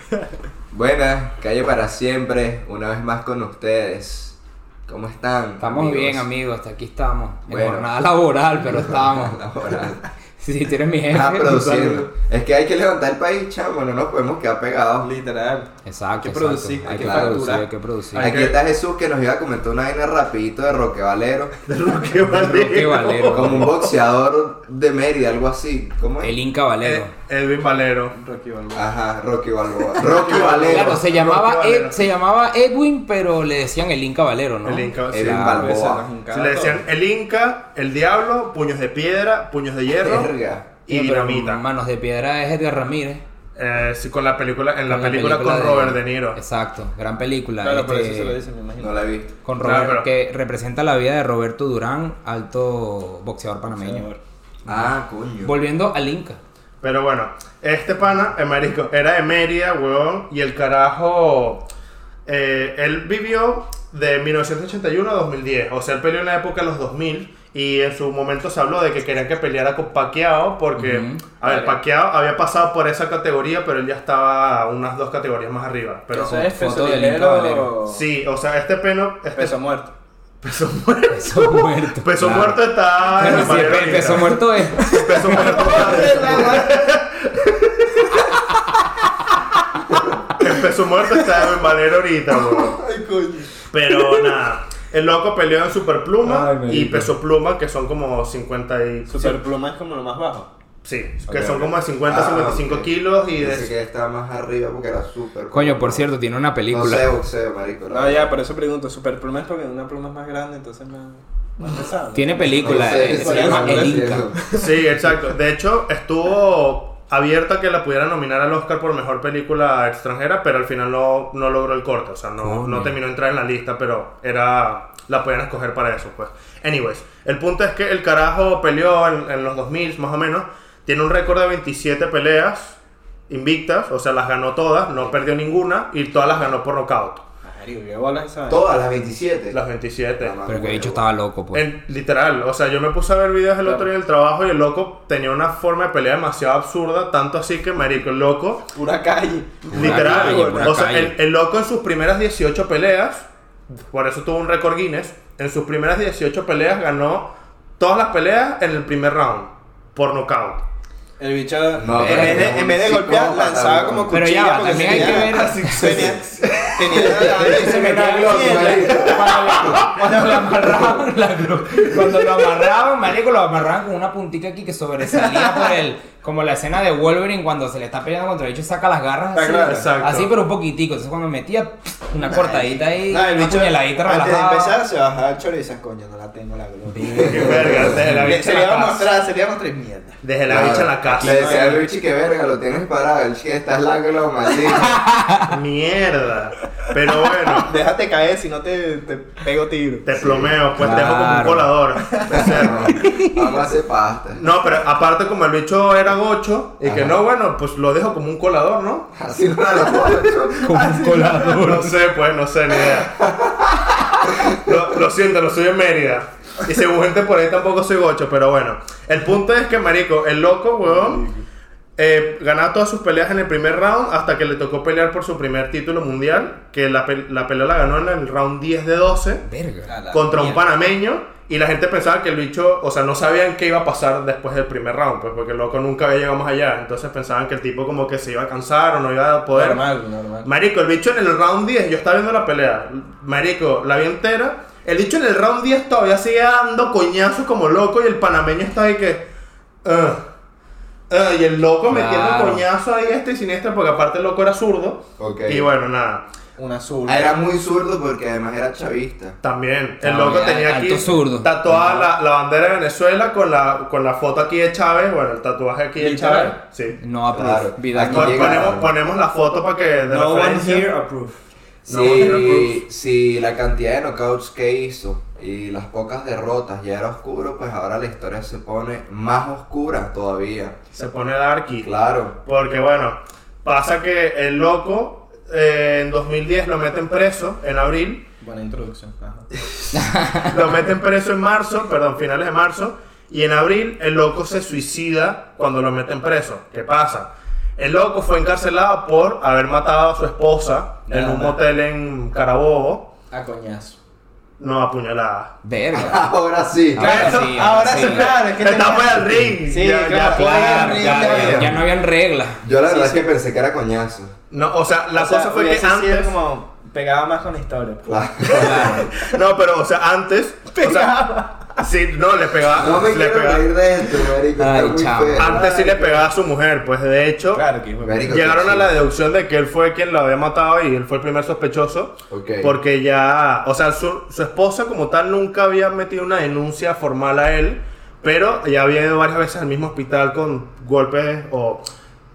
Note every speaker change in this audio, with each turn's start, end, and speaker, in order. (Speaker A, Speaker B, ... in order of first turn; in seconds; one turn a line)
Speaker A: 0.7-6.3
Speaker B: 5.6-9.4
Speaker A: 7.5-7.9
Speaker A: 8.6-10.0
Speaker B: 10.4-12.1
Speaker A: 11.1-15.1
Speaker C: 15.0-17.7
Speaker B: 15.8-18.3
Speaker A: 16.8-17.5
Speaker D: 18.1-18.6
Speaker A: 18.1-21.6
Speaker D: 21.7-23.9
Speaker B: 22.3-23.8
Speaker A: 23.3-26.4
Speaker B: 26.2-27.1
Speaker D: 26.8-28.2
Speaker C: 28.1-28.9
Speaker A: 28.7-31.0
Speaker D: 30.0-32.1
Speaker B: 30.7-35.7
Speaker D: 34.6-35.5
Speaker A: 35.1-36.1
Speaker C: 35.4-36.9
Speaker D: 36.3-40.3
Speaker A: 40.0-40.7
Speaker D: 40.9-41.6
Speaker B: 40.9-43.2
Speaker D: 43.6-46.4
Speaker B: 44.9-48.4
Speaker C: 47.6-49.0
Speaker A: 48.8-49.3
Speaker B: 49.4-54.1
Speaker D: 49.6-50.1
Speaker C: 53.6-54.2
Speaker A: 54.7-55.5
Speaker B: 55.4-56.4
Speaker D: 56.8-61.7
Speaker D: 62.3-76.5
Speaker B: 70.8-71.2
Speaker C: 71.4-71.8
Speaker C: 76.1-78.0
Speaker B: 76.2-77.7
Speaker D: 77.9-79.6
Speaker C: 79.3-79.9
Speaker D: 80.4-88.2
Speaker B: 81.1-86.0
Speaker C: 83.3-83.7
Speaker C: 84.8-86.8
Speaker D: 90.3-92.8
Speaker C: 91.1-91.5
Speaker C: 92.3-94.3
Speaker D: 93.7-99.4
Speaker C: 96.2-97.1
Speaker C: 99.1-100.5
Speaker D: 100.8-103.7
Speaker C: 101.3-101.8
Speaker A: 102.1-106.1
Speaker B: 105.5-107.2
Speaker A: 106.7-108.3
Speaker C: 107.9-114.9
Speaker B: 112.1-114.3
Speaker A: 112.6-114.4
Speaker D: 114.5-132.8
Speaker B: 122.4-123.0
Speaker D: 133.3-137.2
Speaker C: 137.4-138.7
Speaker A: 138.5-139.6
Speaker D: 139.5-140.4
Speaker A: 140.2-141.0
Speaker B: 140.5-141.7
Speaker D: 141.5-148.7
Speaker C: 143.6-143.9
Speaker C: 148.7-150.7
Speaker D: 149.7-153.3
Speaker A: 149.7-150.1
Speaker B: 149.7-151.2
Speaker D: 153.9-160.6
Speaker C: 161.2-171.0
Speaker A: 161.7-164.2
Speaker B: 161.9-162.5
Speaker B: 164.1-184.8
Speaker A: 164.9-169.8
Speaker D: 169.2-169.9
Speaker C: 175.1-175.8
Speaker C: 179.3-179.9
Speaker D: 179.6-180.3
Speaker C: 182.2-191.8
Speaker A: 187.2-188.0
Speaker D: 187.2-189.1
Speaker B: 187.9-188.3
Speaker D: 190.2-191.7
Speaker A: 190.5-195.0
Speaker B: 194.8-195.6
Speaker D: 195.5-197.8
Speaker C: 197.6-200.1
Speaker D: 200.1-203.0
Speaker A: 200.2-200.6
Speaker B: 200.7-201.8
Speaker C: 202.1-202.9
Speaker A: 202.3-204.4
Speaker B: 202.9-203.3
Speaker D: 204.3-209.1
Speaker A: 206.8-207.2
Speaker A: 209.1-210.9
Speaker C: 210.1-211.7
Speaker B: 210.6-212.0
Speaker D: 211.5-213.2
Speaker A: 212.9-214.8
Speaker D: 214.2-221.3
Speaker C: 220.8-221.5
Speaker D: 222.0-229.4
Speaker B: 229.4-229.9
Speaker C: 229.9-230.7
Speaker D: 230.1-239.8
Speaker C: 239.5-240.5
Speaker D: 240.4-249.3
Speaker D: 249.8-250.2
Speaker D: 251.1-256.3
Speaker B: 251.9-252.7
Speaker A: 255.2-255.7
Speaker C: 256.6-257.4
Speaker A: 257.1-259.4
Speaker D: 259.4-267.0
Speaker B: 260.0-262.0
Speaker C: 261.7-262.1
Speaker C: 266.0-266.6
Speaker B: 267.0-268.9
Speaker A: 267.3-268.9
Speaker D: 268.0-270.9
Speaker C: 268.1-268.6
Speaker C: 270.1-271.4
Speaker D: 271.9-272.8
Speaker A: 271.9-280.8
Speaker C: 271.9-272.6
Speaker D: 280.9-288.3
Speaker A: 281.8-282.4
Speaker C: 288.4-289.5
Speaker D: 289.7-303.1
Speaker B: 289.9-290.5
Speaker C: 301.1-301.6
Speaker C: 303.3-304.0
Speaker D: 304.6-305.6
Speaker B: 305.6-306.3
Speaker A: 305.9-307.4
Speaker B: 306.9-308.3
Speaker C: 307.0-311.9
Speaker D: 307.0-311.8
Speaker B: 310.4-312.6
Speaker A: 312.6-314.3
Speaker C: 312.7-313.3
Speaker D: 314.5-316.4
Speaker C: 315.1-319.3
Speaker A: 318.1-319.1
Speaker B: 318.5-319.1
Speaker D: 319.1-321.2
Speaker C: 320.7-321.8
Speaker D: 321.8-323.7
Speaker A: 322.8-325.7
Speaker B: 324.6-325.6
Speaker C: 325.4-326.3
Speaker D: 325.4-327.7
Speaker C: 327.5-328.7
Speaker A: 328.0-329.0
Speaker D: 328.3-341.9
Speaker A: 332.3-332.8